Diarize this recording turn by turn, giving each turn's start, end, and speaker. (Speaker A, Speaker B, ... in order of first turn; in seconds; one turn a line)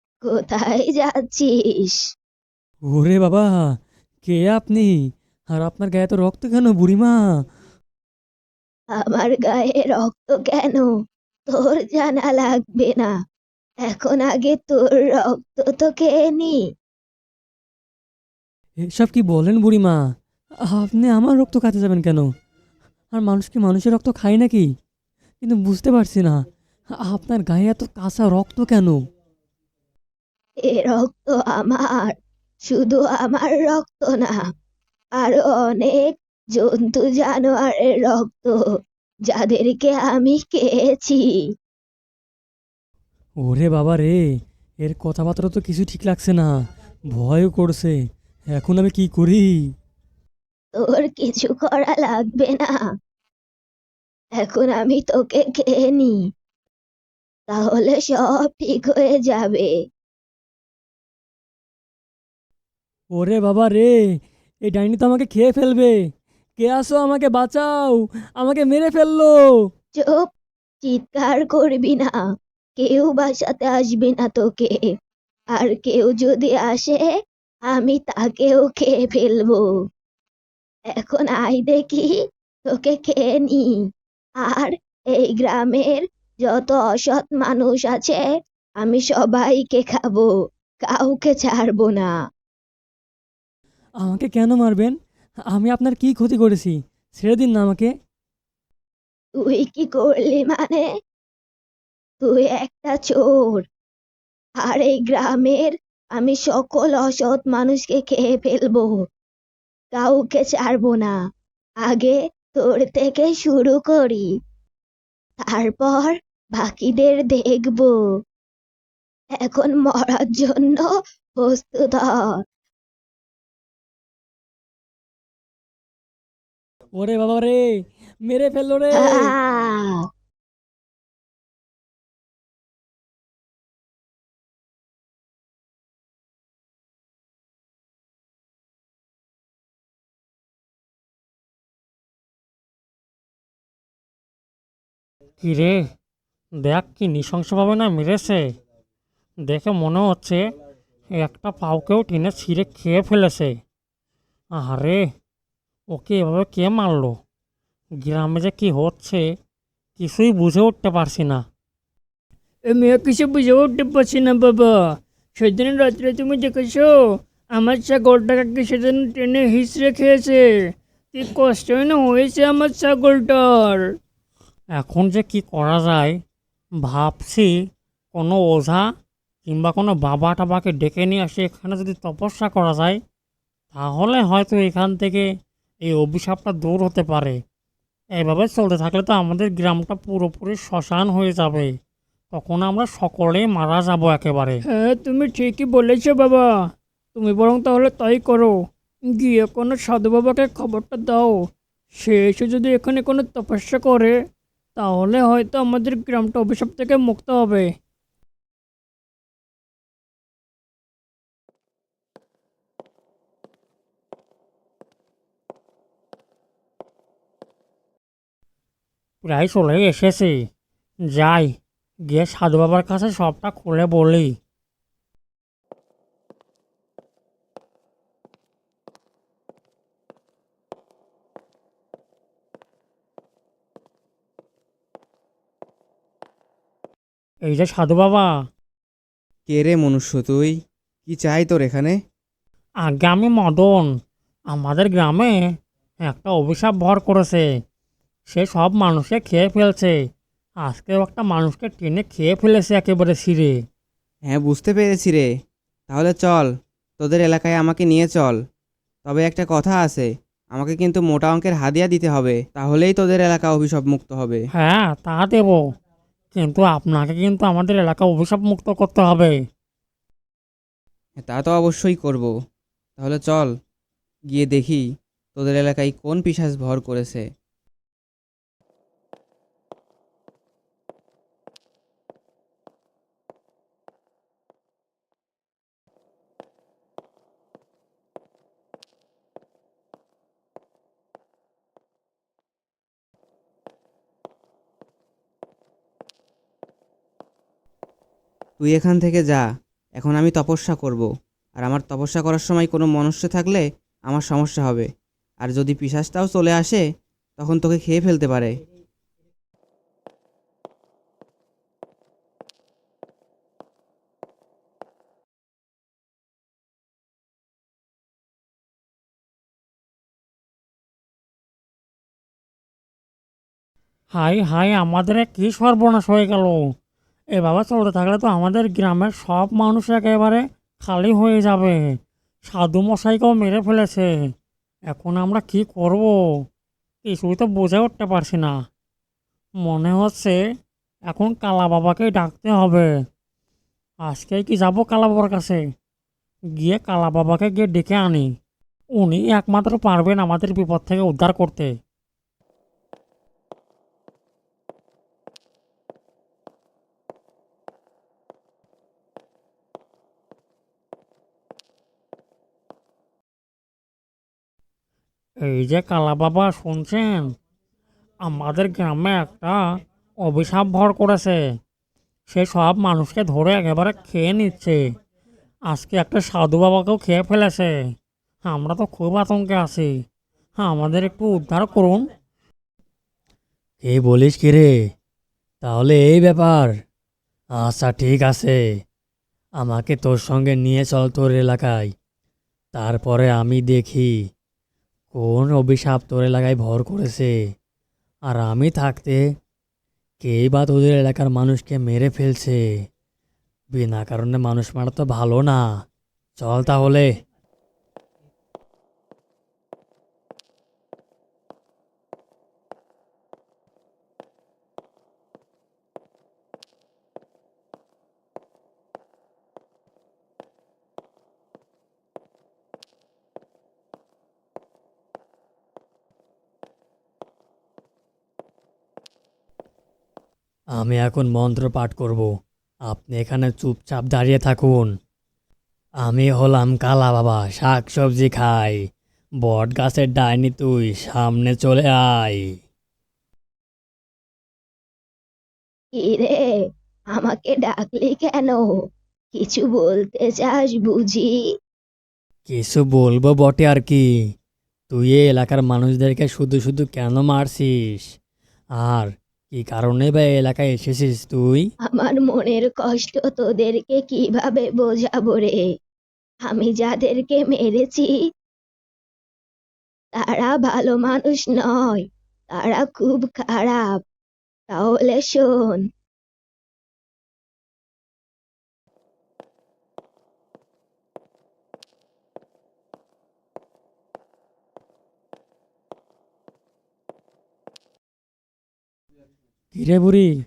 Speaker A: 0.2-2.0
Speaker B: 2.9-5.0
Speaker B: 5.5-7.3
Speaker A: 8.9-10.9
Speaker A: 11.5-13.1
Speaker A: 13.8-16.6
Speaker B: 18.9-20.0
Speaker B: 20.7-22.3
Speaker B: 23.1-24.7
Speaker B: 25.4-26.4
Speaker B: 27.0-29.0
Speaker A: 30.6-32.1
Speaker A: 32.7-34.4
Speaker A: 35.2-38.6
Speaker A: 39.3-41.3
Speaker B: 43.4-44.2
Speaker B: 44.8-46.5
Speaker B: 47.1-48.0
Speaker B: 48.5-49.5
Speaker A: 50.8-52.8
Speaker A: 54.4-56.2
Speaker A: 57.5-59.7
Speaker B: 63.2-64.0
Speaker B: 64.7-66.0
Speaker B: 66.6-69.4
Speaker A: 70.0-70.2
Speaker A: 70.8-72.2
Speaker A: 72.8-74.9
Speaker A: 75.5-77.1
Speaker A: 77.7-79.6
Speaker A: 80.9-82.2
Speaker A: 82.7-83.8
Speaker A: 84.4-88.2
Speaker A: 88.8-90.3
Speaker A: 90.8-92.1
Speaker B: 94.0-95.0
Speaker B: 95.5-97.9
Speaker A: 99.4-100.8
Speaker A: 102.2-103.6
Speaker A: 104.6-108.9
Speaker A: 110.0-111.1
Speaker A: 111.8-114.3
Speaker A: 115.4-117.9
Speaker A: 119.4-122.3
Speaker B: 127.0-127.7
Speaker B: 128.2-129.3
Speaker A: 128.9-130.0
Speaker C: 145.4-145.8
Speaker C: 146.6-148.5
Speaker C: 149.4-150.4
Speaker C: 151.2-153.6
Speaker C: 154.5-155.0
Speaker C: 155.9-157.2
Speaker C: 158.0-159.2
Speaker C: 160.0-161.4
Speaker D: 162.7-166.9
Speaker D: 167.5-170.4
Speaker D: 171.1-173.8
Speaker C: 174.8-176.2
Speaker C: 176.8-177.5
Speaker C: 178.1-178.8
Speaker C: 179.5-183.0
Speaker C: 183.7-185.3
Speaker C: 185.8-187.4
Speaker C: 188.2-191.7
Speaker C: 192.3-194.6
Speaker D: 194.7-196.5
Speaker D: 197.2-198.5
Speaker D: 199.1-201.4
Speaker D: 202.0-204.1
Speaker D: 204.8-207.7
Speaker C: 219.2-220.4
Speaker C: 221.1-221.6
Speaker C: 222.1-224.3
Speaker C: 237.4-238.3
Speaker E: 239.5-240.5
Speaker E: 241.1-241.9
Speaker C: 242.8-243.9
Speaker C: 244.5-245.3
Speaker C: 246.1-247.4
Speaker C: 248.3-249.9
Speaker C: 250.6-253.5
Speaker E: 254.3-255.2
Speaker E: 255.9-256.5
Speaker E: 257.0-258.4
Speaker E: 259.1-264.4
Speaker C: 264.6-265.6
Speaker C: 266.3-269.4
Speaker E: 271.2-272.3
Speaker E: 273.0-273.5
Speaker E: 274.3-274.8
Speaker E: 275.4-277.2
Speaker E: 298.6-299.4
Speaker E: 300.0-301.1
Speaker E: 301.6-304.9
Speaker E: 305.4-306.8
Speaker E: 307.4-308.5
Speaker C: 324.1-326.6
Speaker C: 327.4-331.8
Speaker C: 332.5-334.1
Speaker C: 334.9-336.1
Speaker C: 337.1-338.6
Speaker C: 339.6-340.4
Speaker C: 341.1-342.9
Speaker C: 344.0-345.6
Speaker C: 346.6-348.3
Speaker C: 349.0-351.7
Speaker C: 365.4-367.3
Speaker C: 368.2-369.6
Speaker C: 370.2-371.4
Speaker C: 372.3-374.8
Speaker C: 375.7-377.7
Speaker C: 378.4-379.9
Speaker C: 380.6-382.1
Speaker B: 383.8-384.7
Speaker B: 385.6-386.7
Speaker B: 387.6-388.6
Speaker B: 389.6-391.9
Speaker B: 392.8-394.1
Speaker B: 395.1-397.3
Speaker B: 398.3-399.2
Speaker B: 400.2-402.6
Speaker B: 403.7-405.6
Speaker B: 406.4-407.1
Speaker B: 430.8-432.3
Speaker B: 432.9-434.9
Speaker B: 436.0-438.8
Speaker B: 439.4-442.4
Speaker A: 446.0-446.5
Speaker A: 447.1-448.6
Speaker A: 449.3-451.3
Speaker B: 452.5-454.0
Speaker B: 454.9-458.1
Speaker B: 458.8-461.7
Speaker A: 461.9-465.6
Speaker A: 466.5-468.1
Speaker A: 470.2-474.0
Speaker A: 474.7-475.8
Speaker B: 489.7-490.3